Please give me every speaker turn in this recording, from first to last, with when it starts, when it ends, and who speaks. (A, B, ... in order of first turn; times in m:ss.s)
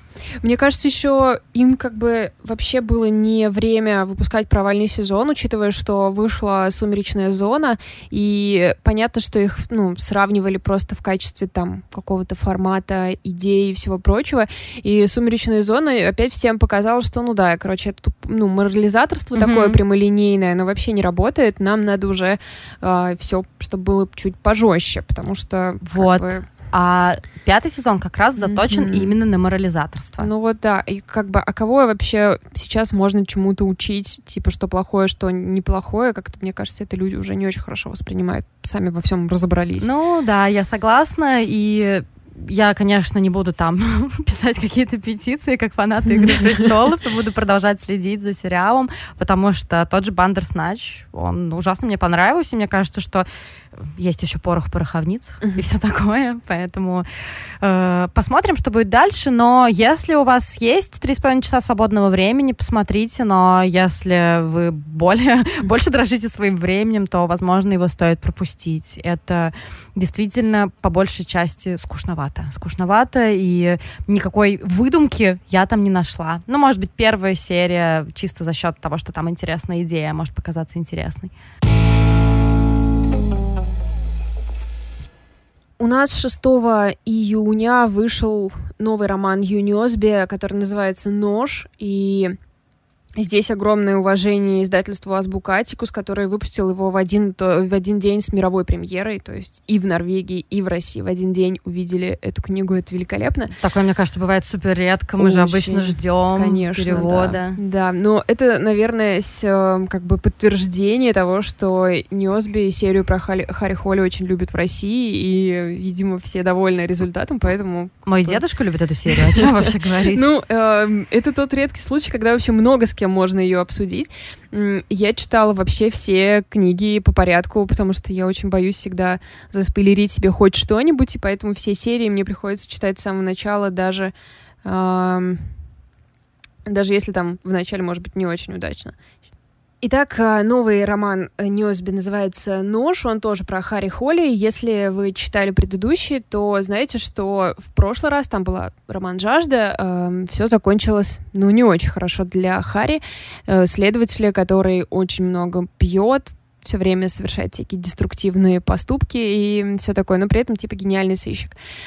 0:00.4-0:26.5 A
0:19.4-0:19.8 B
0:25.8-0:30.3 B
0:28.4-0:29.2 A
0:30.2-0:39.9 A
0:39.8-0:53.3 B
0:46.2-0:46.6 A
0:53.8-0:57.0 B
0:57.6-1:21.3 B
1:25.8-1:32.4 A
1:33.2-1:43.5 A
1:43.6-1:47.6 B
1:45.2-1:58.4 A
1:58.1-2:00.2 B
1:59.1-1:59.5 A
2:00.1-2:14.1 A
2:14.6-2:15.5 A
2:16.7-2:19.0 A
2:19.8-2:41.6 A